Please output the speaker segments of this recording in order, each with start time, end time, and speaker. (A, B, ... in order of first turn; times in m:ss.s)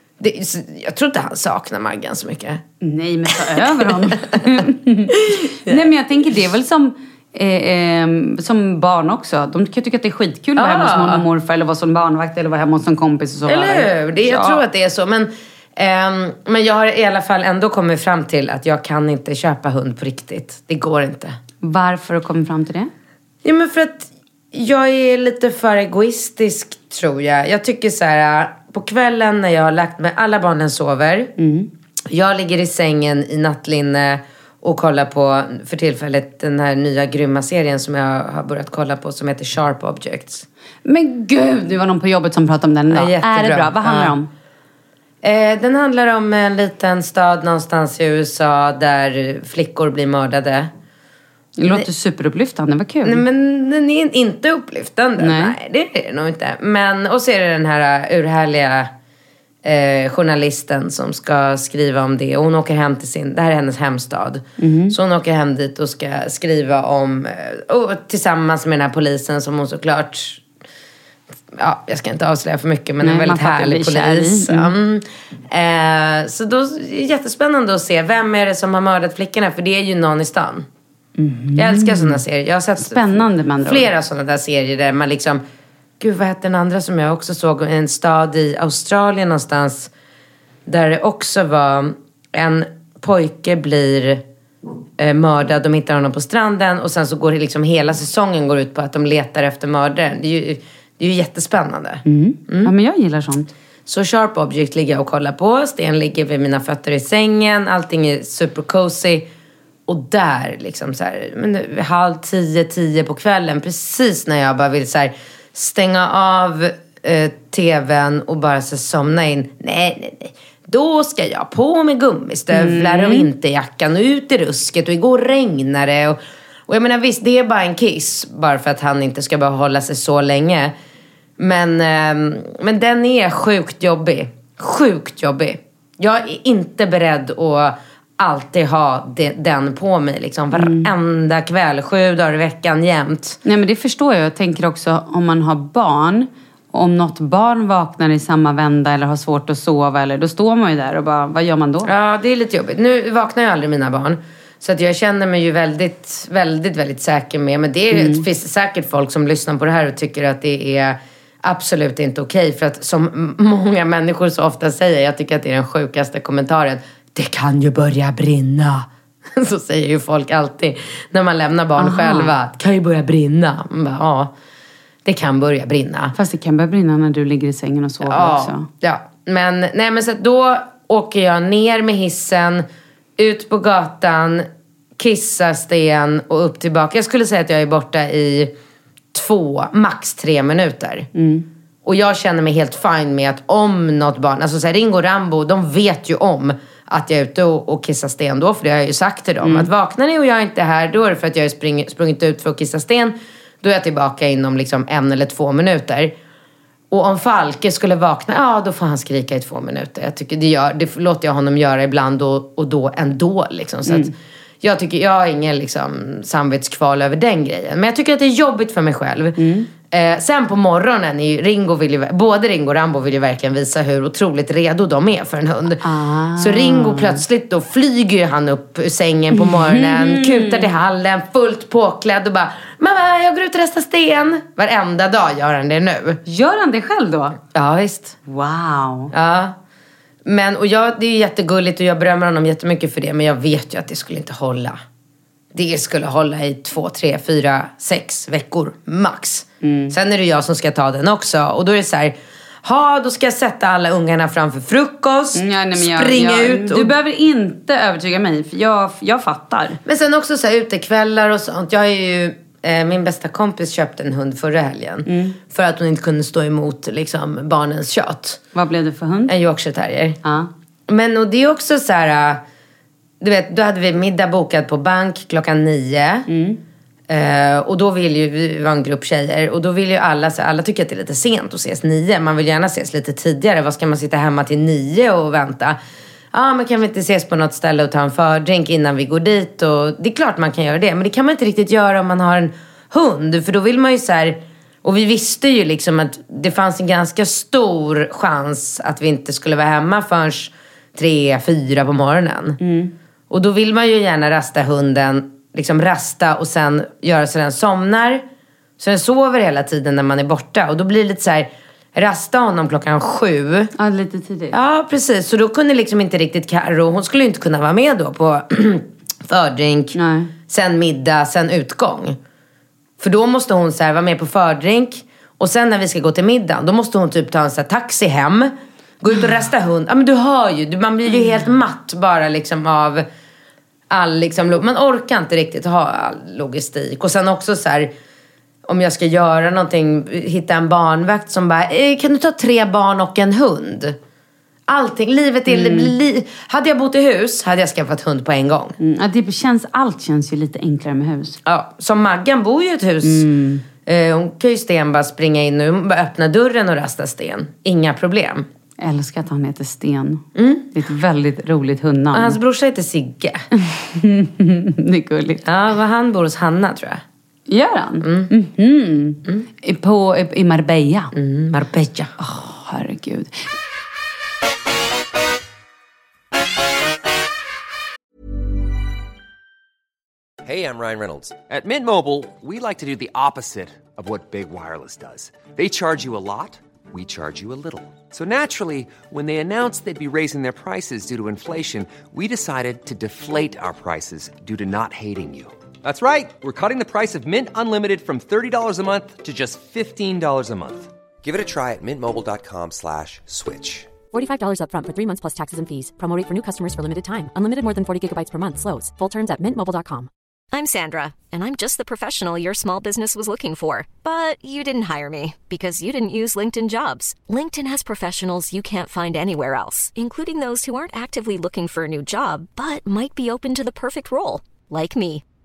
0:00.2-0:02.6 A
0:02.8-0:14.6 B
0:03.5-0:04.5 A
0:05.1-0:05.9 A
0:10.6-0:11.2 A
0:13.5-0:21.4 A
0:21.6-0:22.9 B
0:23.4-0:31.3 A
0:31.4-0:31.7 B
0:32.1-0:40.4 A
0:40.8-0:44.3 B
0:42.9-0:44.1 A
0:45.2-0:50.7 A
0:51.6-0:53.2 B
0:53.0-0:58.9 A
0:55.2-0:55.5 B
0:59.6-1:10.4 A
1:04.6-1:05.0 B
1:11.5-1:20.7 A
1:13.0-1:14.7 B
1:21.2-1:22.2 B
1:21.6-1:25.4 A
1:22.8-1:23.9 B
1:26.0-1:29.9 A
1:30.6-1:34.2 A
1:35.0-1:42.7 A
1:42.0-1:43.5 B
1:43.8-1:49.3 A
1:49.9-2:10.7 A
2:02.5-2:03.3 B
2:11.4-2:23.4 A
2:20.5-2:20.9 B
2:23.4-2:31.9 B
2:31.8-2:54.3 A
2:37.9-2:38.2 B
2:51.8-2:52.3 B
2:55.0-2:56.1 A
2:56.1-2:58.7 B
2:58.0-3:02.6 A
3:03.2-3:08.5 A
3:09.1-3:11.1 A
3:11.1-3:11.4 B
3:11.8-3:26.1 A
3:19.4-3:19.7 B
3:26.9-3:45.8 A
3:33.9-3:34.1 B
3:39.4-3:39.7 B
3:45.8-3:47.2 B
3:46.4-3:56.2 A
3:49.3-3:50.7 B
3:56.2-3:57.4 B
3:57.5-3:58.2 A
3:58.2-3:59.1 B
3:59.1-3:59.6 A
4:00.2-4:04.8 A
4:05.5-4:16.9 A
4:09.6-4:09.9 B
4:15.3-4:19.8 B
4:19.8-4:28.4 A
4:25.0-4:25.4 B
4:28.5-4:29.3 B
4:29.3-4:30.2 A
4:30.2-4:30.5 B
4:30.9-4:32.4 A
4:33.2-4:36.3 A
4:36.3-4:36.6 B
4:37.1-4:45.8 A
4:46.3-5:02.6 A
5:02.6-5:02.9 B
5:03.3-5:08.2 A
5:08.8-5:13.7 A
5:13.8-5:14.6 B
5:14.5-5:20.0 A
5:19.9-5:20.3 B
5:20.5-5:22.2 A
5:23.0-5:33.0 A
5:33.9-5:37.9 A
5:38.6-5:44.0 A
5:44.7-5:48.8 A
5:45.5-5:45.9 B
5:48.8-5:51.4 B
5:51.4-5:53.3 A
5:53.0-5:53.6 B
5:53.8-5:58.5 A
5:58.8-6:02.4 B
6:00.3-6:00.7 A
6:02.1-6:03.4 A
6:03.6-6:05.4 B
6:05.4-6:07.0 A
6:07.5-6:11.1 B
6:08.0-6:08.3 A
6:11.1-6:12.1 A
6:12.2-6:13.4 B
6:20.4-6:43.9 C
6:44.1-6:50.1 D
6:50.5-7:05.2 E